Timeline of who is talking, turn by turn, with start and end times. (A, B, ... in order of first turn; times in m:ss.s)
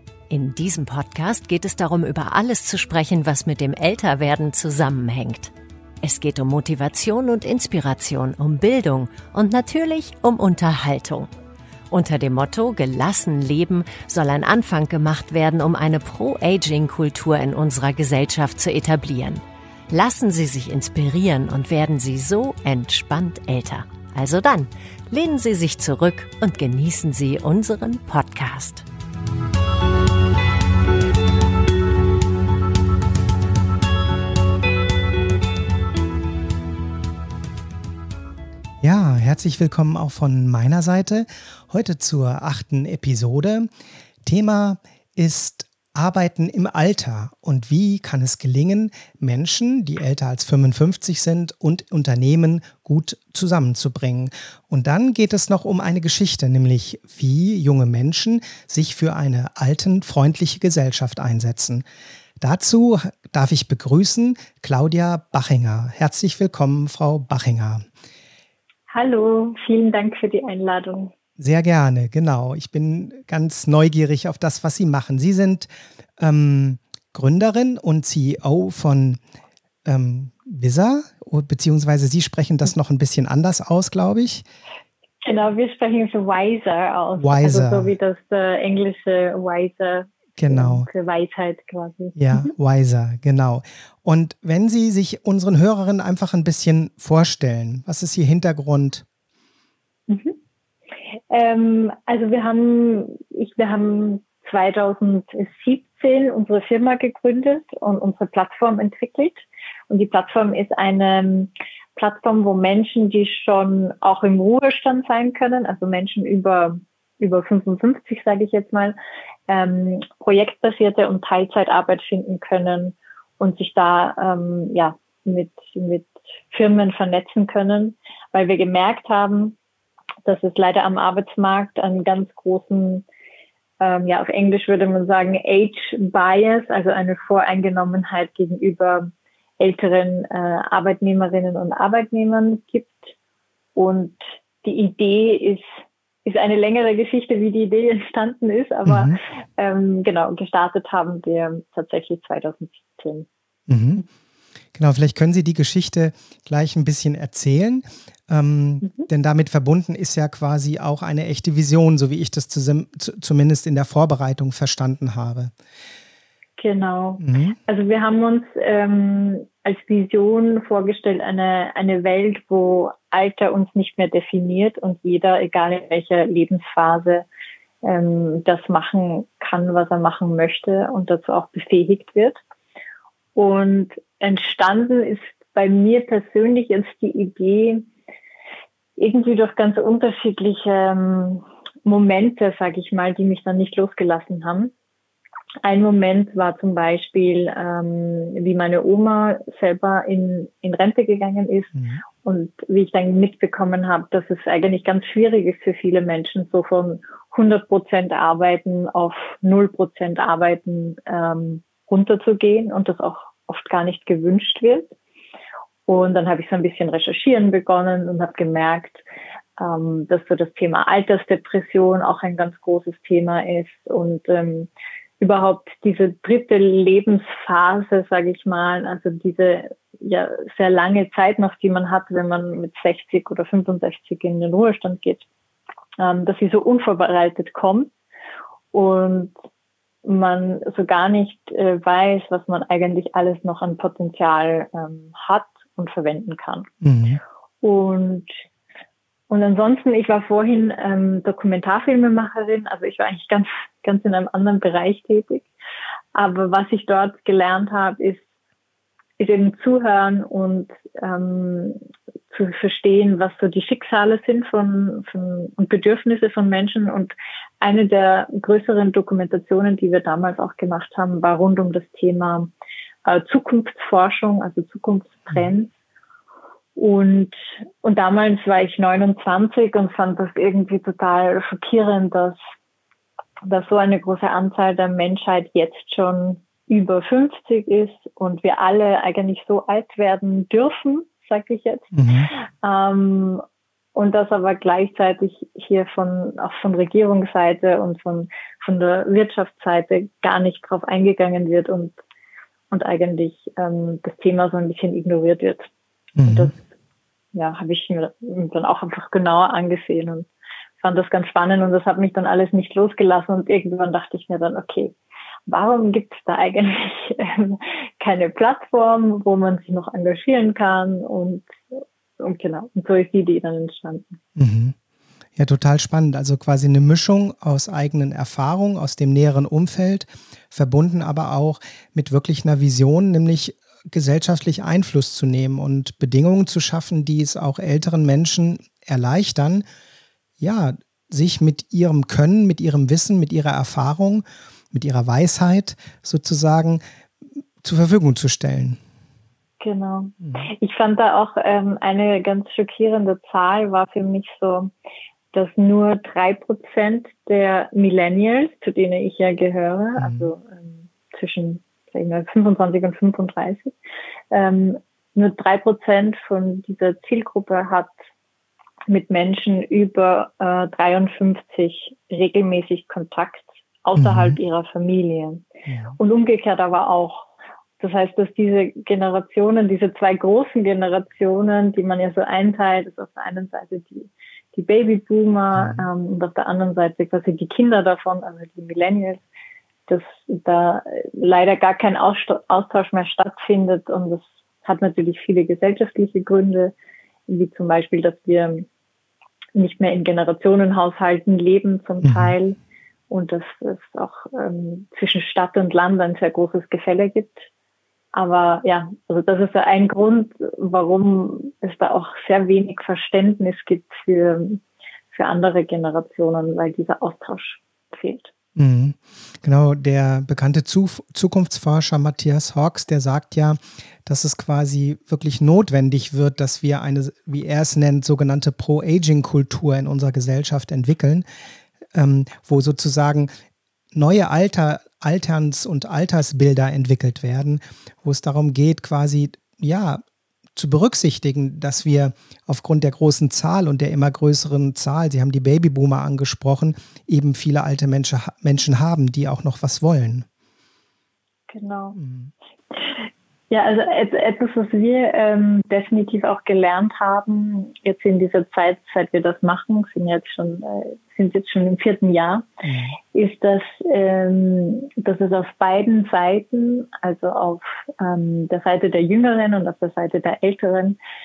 0:00.3-0:11.3 A
0:11.9-0:28.8 A
0:38.8-0:43.7 B
0:44.2-1:01.8 B
1:02.4-1:07.8 B
1:08.9-1:11.1 C
1:11.4-1:19.2 B
1:19.8-1:24.4 B
1:25.2-1:32.5 C
1:27.2-1:27.9 B
1:30.4-1:30.9 B
1:32.1-1:39.0 B
1:40.1-1:40.4 C
1:41.3-1:59.0 C
1:59.5-2:09.6 C
2:10.2-2:13.0 C
2:13.8-2:23.1 C
2:23.7-2:25.7 C
2:26.2-2:33.3 C
2:28.8-2:29.2 B
2:33.7-2:34.0 B
2:34.7-2:45.5 B
2:38.8-2:39.1 C
2:46.6-2:57.2 C
2:47.2-2:47.6 B
2:57.8-3:02.4 C
3:03.3-3:07.9 C
3:09.0-3:14.7 C
3:15.6-3:34.9 C
3:21.8-3:22.0 B
3:35.9-3:39.0 C
3:39.6-3:44.7 C
3:45.2-3:55.2 C
3:56.0-3:57.9 C
3:58.7-3:59.3 C
4:00.0-4:06.7 C
4:06.8-4:07.2 B
4:07.6-4:08.3 C
4:09.3-4:15.5 C
4:16.1-4:18.2 C
4:19.2-4:32.5 C
4:33.0-4:35.7 C
4:36.8-4:42.4 C
4:43.4-4:53.4 C
4:51.9-4:52.3 B
4:53.9-5:02.0 C
5:02.7-5:05.7 C
5:06.2-5:06.5 B
5:06.3-5:06.6 C
5:07.3-5:10.3 C
5:10.8-5:14.9 C
5:15.5-5:24.2 C
5:24.4-5:24.7 B
5:25.4-5:39.6 B
5:40.4-5:46.8 B
5:47.6-5:48.8 B
5:49.6-5:54.7 C
5:55.3-6:03.7 C
6:00.0-6:00.3 B
6:04.3-6:07.9 C
6:08.9-6:15.4 C
6:14.0-6:14.4 B
6:15.7-6:16.0 B
6:16.0-6:29.2 C
6:25.5-6:25.8 B
6:29.9-6:36.7 C
6:37.3-6:38.6 C
6:39.5-6:42.6 C
6:42.0-6:42.3 B
6:43.1-6:47.5 C
6:48.1-6:58.3 C
6:58.6-7:11.2 B
7:11.9-7:13.3 B
7:13.9-7:20.0 B
7:20.5-7:30.2 B
7:31.5-7:32.0 C
7:32.0-7:32.3 B
7:32.7-7:42.5 C
7:42.6-7:43.0 B
7:43.1-7:51.0 C